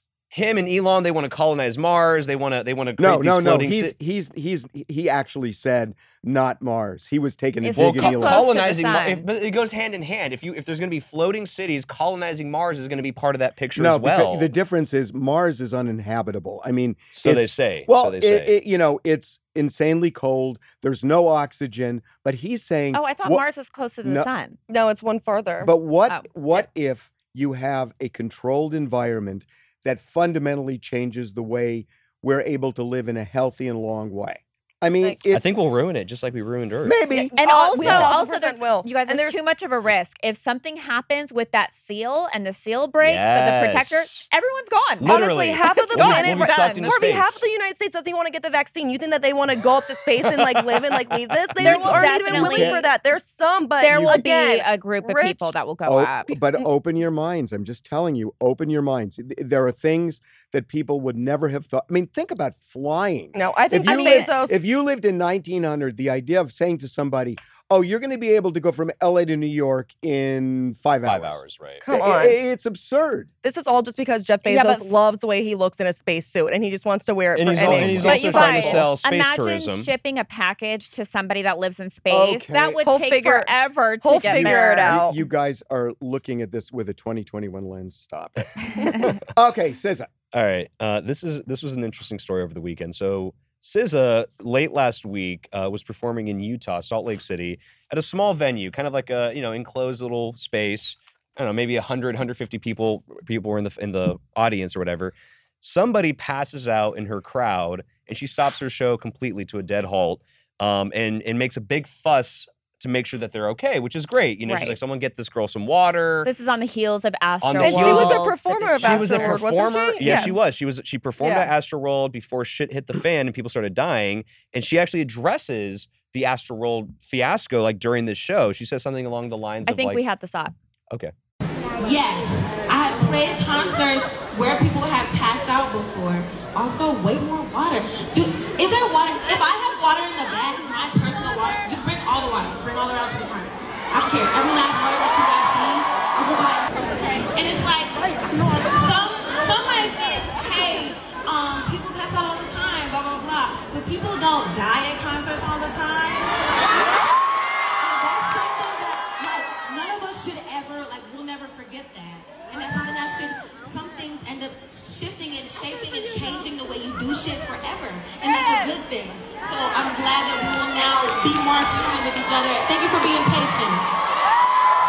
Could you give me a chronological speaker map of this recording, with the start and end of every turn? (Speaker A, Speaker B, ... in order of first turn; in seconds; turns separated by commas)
Speaker A: 0.3-3.9, Speaker B: 3.0-8.5, Speaker C: 7.6-9.2, Speaker A: 7.8-14.5, Speaker B: 13.8-23.4, Speaker A: 17.1-18.5, Speaker C: 22.9-24.6, Speaker B: 24.0-24.3, Speaker D: 24.7-25.7, Speaker B: 25.6-35.5, Speaker A: 35.3-37.0, Speaker B: 36.9-37.3, Speaker D: 37.1-39.5, Speaker C: 37.4-45.2, Speaker A: 37.8-38.1, Speaker A: 43.0-44.3, Speaker A: 45.0-47.4, Speaker D: 45.0-55.5, Speaker C: 45.9-46.9, Speaker A: 50.3-52.1, Speaker C: 51.6-52.9, Speaker B: 52.0-52.9, Speaker C: 53.8-56.3, Speaker B: 53.9-54.2, Speaker B: 55.9-73.3, Speaker D: 63.3-64.6, Speaker C: 63.8-64.3, Speaker A: 71.0-71.8, Speaker D: 71.8-72.4, Speaker D: 73.4-78.8, Speaker C: 74.5-75.0, Speaker A: 77.3-79.9, Speaker B: 77.6-78.2, Speaker C: 78.0-85.0, Speaker B: 82.1-82.8, Speaker D: 82.8-85.2, Speaker B: 84.2-90.1, Speaker A: 90.3-116.3, Speaker C: 114.5-114.8, Speaker C: 116.2-119.4, Speaker A: 117.4-118.3, Speaker D: 117.6-120.4, Speaker A: 118.8-130.0, Speaker C: 120.0-120.4, Speaker D: 121.2-121.5, Speaker C: 129.6-130.5, Speaker E: 131.8-156.9, Speaker E: 157.8-173.8